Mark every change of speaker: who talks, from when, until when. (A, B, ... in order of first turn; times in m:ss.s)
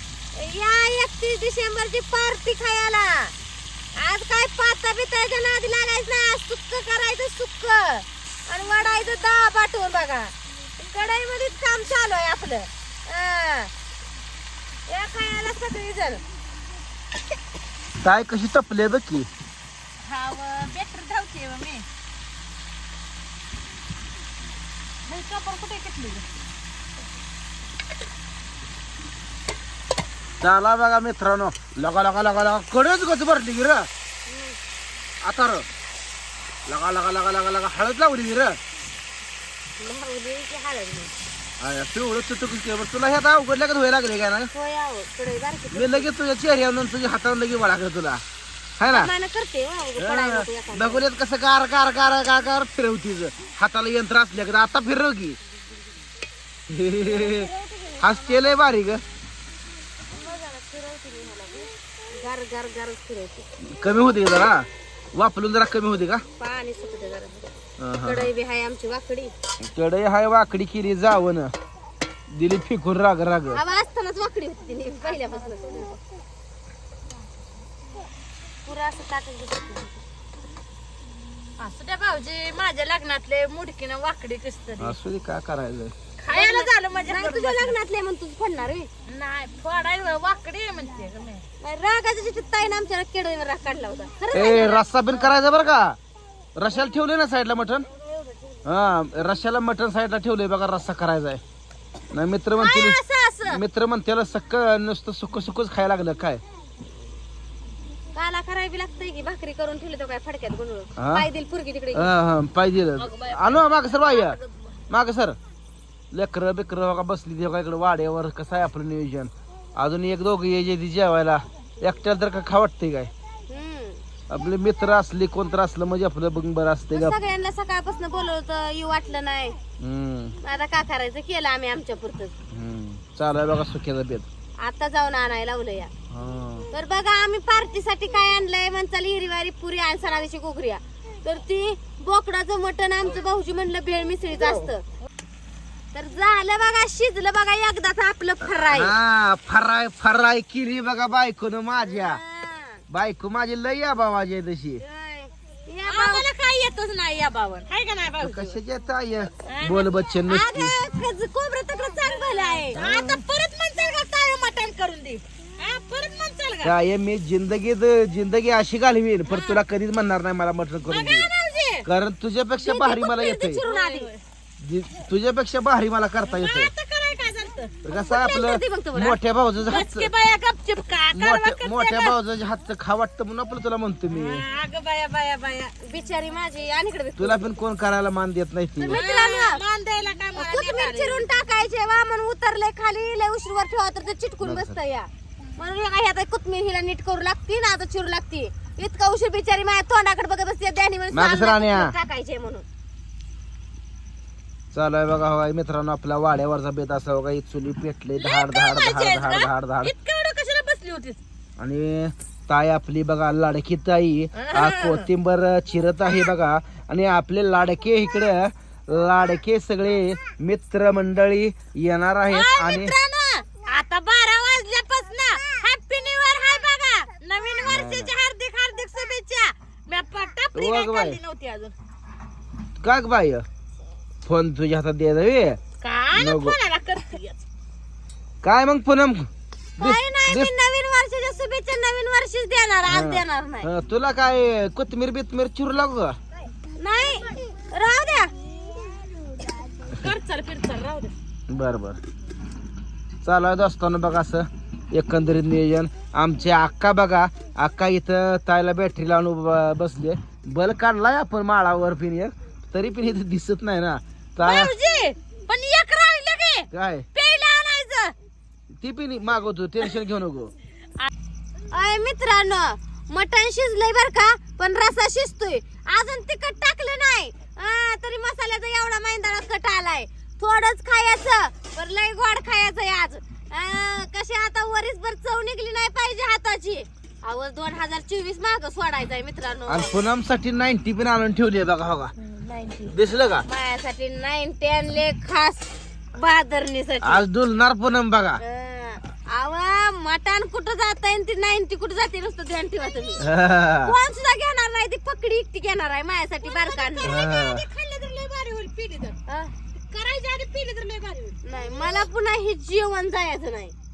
0:00.3-0:03.3 A
0:03.9-0:10.3 A
0:10.9-0:13.7 A
0:14.9-0:16.2 A
0:18.0-0:19.3 B
0:20.0-0:21.8 C
0:25.0-0:26.2 C
0:30.4-0:33.9 B
0:34.3-0:34.6 A
0:35.2-0:35.6 B
0:36.7-0:38.6 B
0:39.8-0:41.1 A
0:41.6-0:44.5 B
0:44.5-0:46.1 A
0:45.7-0:48.2 B
0:48.8-0:49.1 B
0:48.9-0:51.1 A
0:50.0-0:55.4 B
0:56.7-0:57.5 B
0:57.0-0:58.6 A
0:58.0-0:59.0 B
1:00.1-1:01.7 C
1:02.1-1:03.5 A
1:03.6-1:06.2 B
1:06.4-1:07.5 A
1:07.8-1:08.3 B
1:08.0-1:09.3 A
1:09.6-1:11.5 B
1:12.3-1:13.6 B
1:13.5-1:16.0 A
1:18.6-1:20.0 A
1:21.6-1:25.0 C
1:24.8-1:25.9 B
1:26.2-1:27.7 C
1:26.3-1:28.9 A
1:29.0-1:31.4 C
1:31.6-1:34.9 A
1:34.3-1:36.0 B
1:36.6-1:37.9 B
1:38.6-1:41.4 B
1:42.1-1:46.4 B
1:42.6-1:43.6 A
1:48.1-1:52.1 A
1:51.0-1:51.3 B
1:51.9-1:54.4 B
1:53.0-1:54.6 C
1:54.9-1:55.4 B
1:56.1-2:03.1 B
2:03.5-2:04.0 A
2:04.3-2:07.2 B
2:06.9-2:09.6 A
2:09.8-2:10.4 B
2:10.4-2:12.3 A
2:12.5-2:14.3 B
2:14.6-2:15.9 A
2:16.1-2:16.7 B
2:16.7-2:24.8 A
2:25.9-2:28.9 A
2:28.6-2:32.2 B
2:31.8-2:32.8 A
2:32.9-2:34.8 B
2:34.8-2:36.3 A
2:35.8-2:38.6 C
2:38.2-2:40.8 B
2:39.4-2:40.0 C
2:40.3-2:42.9 A
2:41.9-2:46.7 C
2:42.7-2:43.2 B
2:46.6-2:51.3 B
2:49.3-2:49.6 C
2:50.8-2:51.9 C
2:51.8-2:53.6 B
2:52.6-2:54.1 A
2:53.6-2:54.2 C
2:54.6-2:56.7 B
2:56.2-2:57.7 C
2:57.8-3:00.1 B
2:57.8-2:59.2 A
2:59.6-3:02.2 C
3:01.1-3:04.4 B
3:04.1-3:05.8 C
3:05.8-3:07.5 A
3:07.2-3:09.0 B
3:08.8-3:09.6 A
3:08.9-3:11.2 C
3:10.3-3:22.6 A
3:14.4-3:14.7 B
3:21.1-3:21.9 B
3:24.7-3:29.9 B
3:28.2-3:31.2 C
3:31.6-3:43.0 B
3:34.3-3:35.1 C
3:42.3-3:51.7 C
3:47.6-3:48.1 B
3:50.5-3:51.2 B
3:52.8-3:53.4 B
3:54.2-3:55.6 B
3:55.8-3:57.4 C
3:56.1-3:56.6 B
3:58.4-4:00.5 B
3:59.8-4:03.7 A
4:02.9-4:06.2 B
4:06.8-4:08.3 A
4:08.6-4:11.1 C
4:11.5-4:12.0 B
4:13.2-4:24.8 B
4:24.4-4:28.1 C
4:26.7-4:27.1 B
4:28.8-4:30.5 B
4:31.7-4:49.9 A
4:49.7-4:52.1 B
4:52.2-4:52.8 C
4:52.9-4:53.4 B
4:53.4-4:57.2 A
4:57.0-4:58.4 B
4:58.4-5:03.2 A
5:03.2-5:03.9 B
5:03.8-5:07.2 A
5:06.4-5:09.2 C
5:07.0-5:07.6 B
5:09.9-5:11.4 C
5:11.4-5:13.7 A